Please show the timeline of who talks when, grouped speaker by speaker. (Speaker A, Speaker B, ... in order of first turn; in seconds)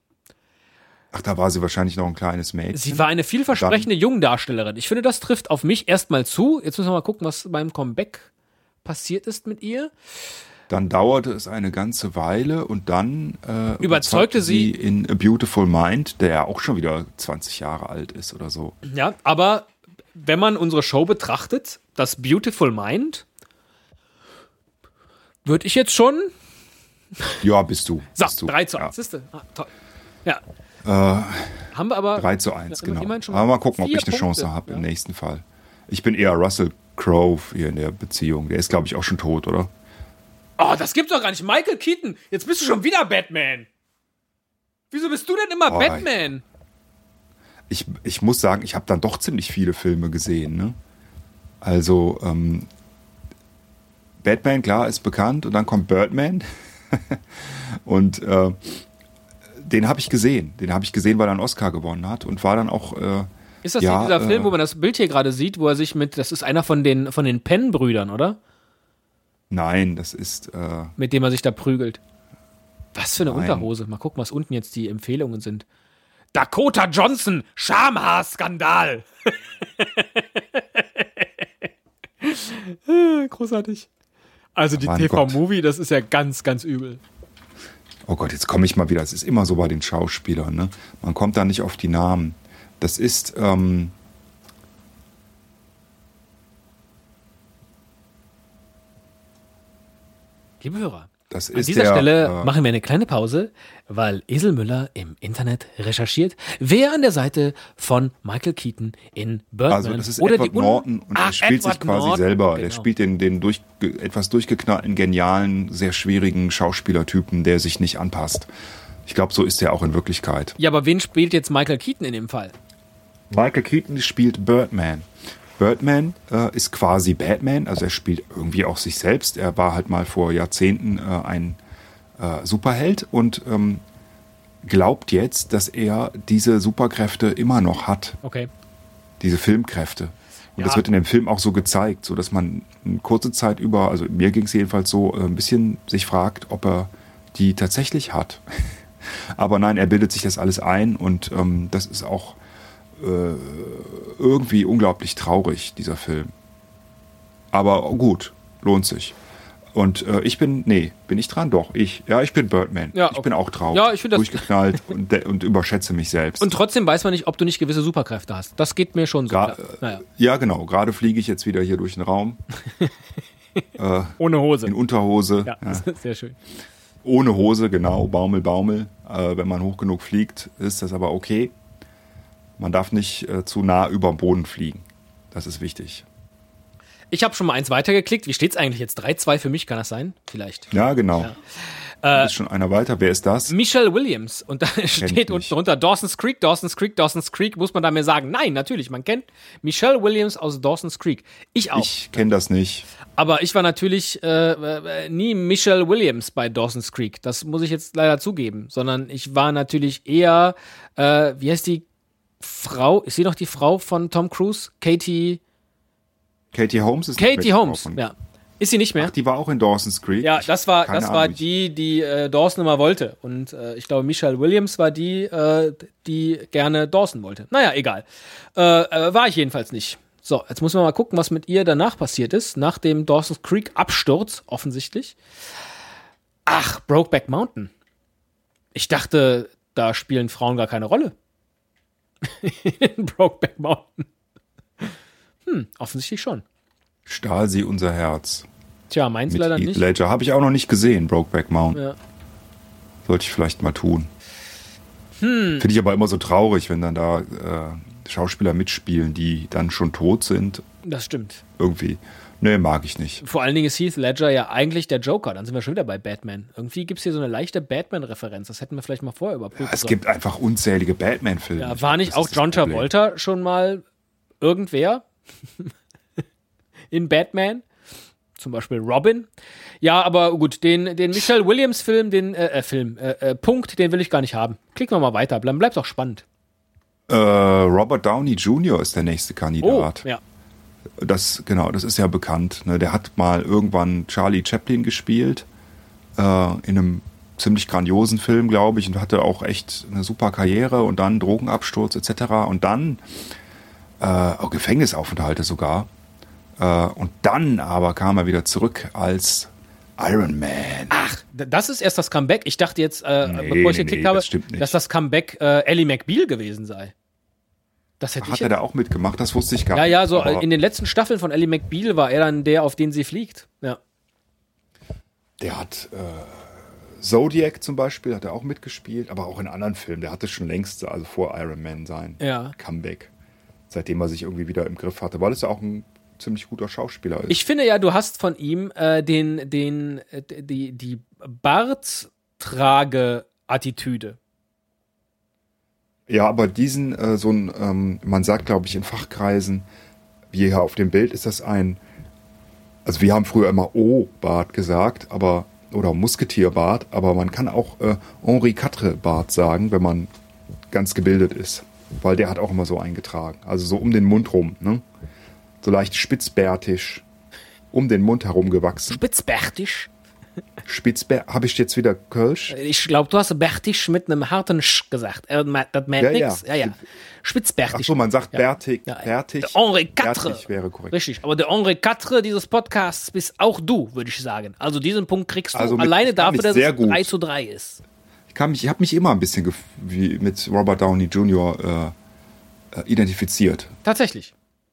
Speaker A: 1.1-3.9, 10.7-18.8, 27.4-28.9, 30.9-39.7, 45.7-46.1, 47.7-50.8, 51.6-52.7, 54.2-58.8, 59.6-63.3, 63.8-64.5, 69.5-70.9, 73.2-73.7, 84.8-85.4, 88.1-93.9, 101.3-102.5, 109.7-118.5, 119.1-120.6, 123.3-125.1, 125.6-131.6, 132.2-133.8, 134.6-138.2, 139.2-148.8, 149.3-152.4, 153.0-156.3, 157.5-159.2, 159.7-166.5, 169.3-172.4, 173.8-175.8, 177.0-181.5, 182.6-186.1, 190.7-191.3, 192.1-193.5, 195.0-195.5, 201.8-202.9, 216.5-218.0, 219.0-221.4, 247.1-248.5, 249.3-251.8, 253.1-254.1, 255.6-260.6, 261.6-263.2, 269.6-272.9, 287.1-290.1, 291.0-295.4, 296.2-303.0, 304.0-305.9, 306.6-311.0, 313.2-314.8, 318.2-320.5, 325.4-333.1, 333.7-337.4, 346.1-349.6, 350.3-351.8, 352.9-360.1, 360.7-364.8, 365.6-367.0, 367.7-369.0, 370.7-372.6, 376.0-376.8, 377.7-381.0, 385.5-387.1, 388.3-391.9, 392.7-393.7
Speaker B: 2.7-8.3, 8.8-9.9, 13.8-14.7, 18.9-23.2, 25.4-26.3, 28.2-29.7, 31.7-34.8, 40.6-43.7, 44.9-46.4, 63.6-68.4, 71.0-72.0, 72.9-75.7, 76.3-81.3, 82.2-83.9, 84.5-87.0, 100.6-112.9, 120.6-122.5, 138.2-138.5, 162.9-164.5, 166.4-170.0, 174.2-174.7, 175.5-176.4, 187.1-191.4, 192.0-192.3, 193.5-201.9, 203.2-211.8, 212.4-215.4, 217.2-219.1, 220.2-235.2, 236.5-237.7, 238.8-241.1, 242.2-244.1, 245.5-246.4, 248.9-249.8, 255.2-255.7, 260.8-261.4, 263.2-270.0, 271.6-273.8, 274.4-275.1, 276.9-277.6, 278.4-279.3, 279.8-286.2, 289.6-290.2, 310.9-316.9, 318.0-318.5, 319.7-323.8, 332.2-332.6, 337.3-344.2, 368.9-369.9, 372.5-387.8, 393.8-394.3